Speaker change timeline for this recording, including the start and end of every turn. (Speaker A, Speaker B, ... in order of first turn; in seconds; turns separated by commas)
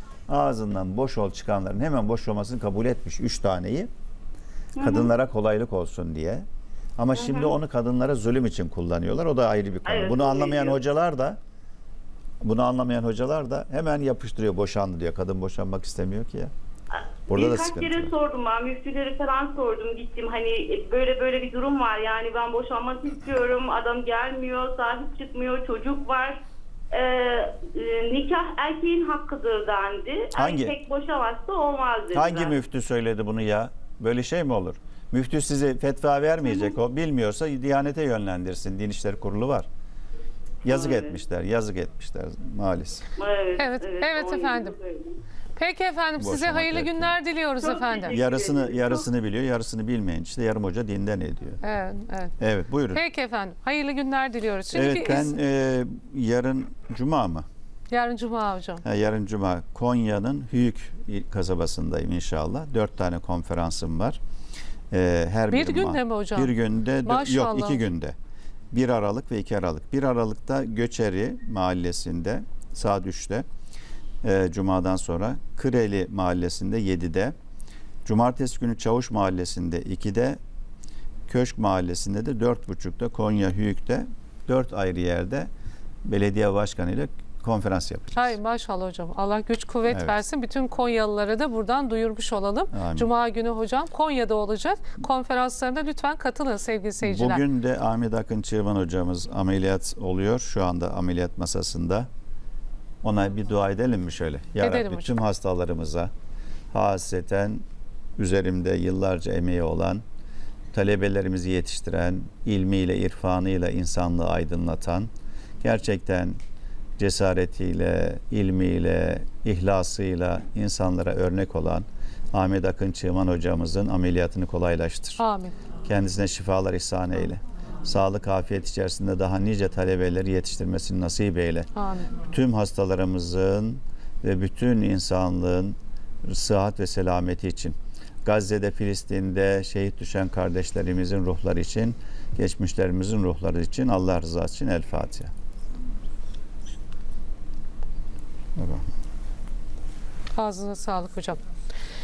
Speaker A: 0.3-3.9, Speaker B: 4.8-5.1, Speaker A: 4.8-6.5, Speaker A: 7.0-11.4, Speaker B: 7.2-7.5, Speaker B: 9.8-10.8, Speaker A: 12.4-16.5, Speaker B: 16.9-32.6, Speaker A: 17.3-18.1, Speaker A: 30.3-30.7, Speaker A: 32.1-39.7, Speaker B: 36.5-36.7, Speaker A: 40.6-43.0, Speaker B: 40.7-41.2, Speaker B: 43.2-45.2, Speaker C: 43.6-44.7, Speaker C: 45.6-48.2, Speaker A: 46.2-47.1, Speaker B: 47.6-49.0, Speaker A: 48.1-51.6, Speaker C: 51.6-52.3, Speaker A: 52.4-53.0, Speaker C: 52.9-55.4, Speaker A: 54.7-57.4, Speaker C: 57.9-58.8, Speaker A: 58.8-64.2, Speaker A: 64.9-68.1, Speaker C: 65.5-67.8, Speaker A: 68.7-73.5, Speaker A: 74.2-77.3, Speaker A: 78.0-80.4, Speaker A: 81.3-85.5, Speaker A: 86.0-88.3, Speaker C: 88.2-97.4, Speaker A: 89.9-90.2, Speaker A: 92.7-93.1, Speaker A: 97.0-102.1, Speaker A: 103.0-106.1, Speaker C: 104.6-105.2, Speaker A: 106.7-107.6, Speaker A: 108.2-110.0, Speaker A: 110.7-115.1, Speaker A: 115.6-116.4, Speaker A: 117.0-125.2, Speaker C: 125.2-125.5, Speaker A: 125.8-131.7, Speaker C: 131.8-132.1, Speaker A: 132.2-145.3, Speaker A: 148.6-148.8, Speaker C: 150.3-151.4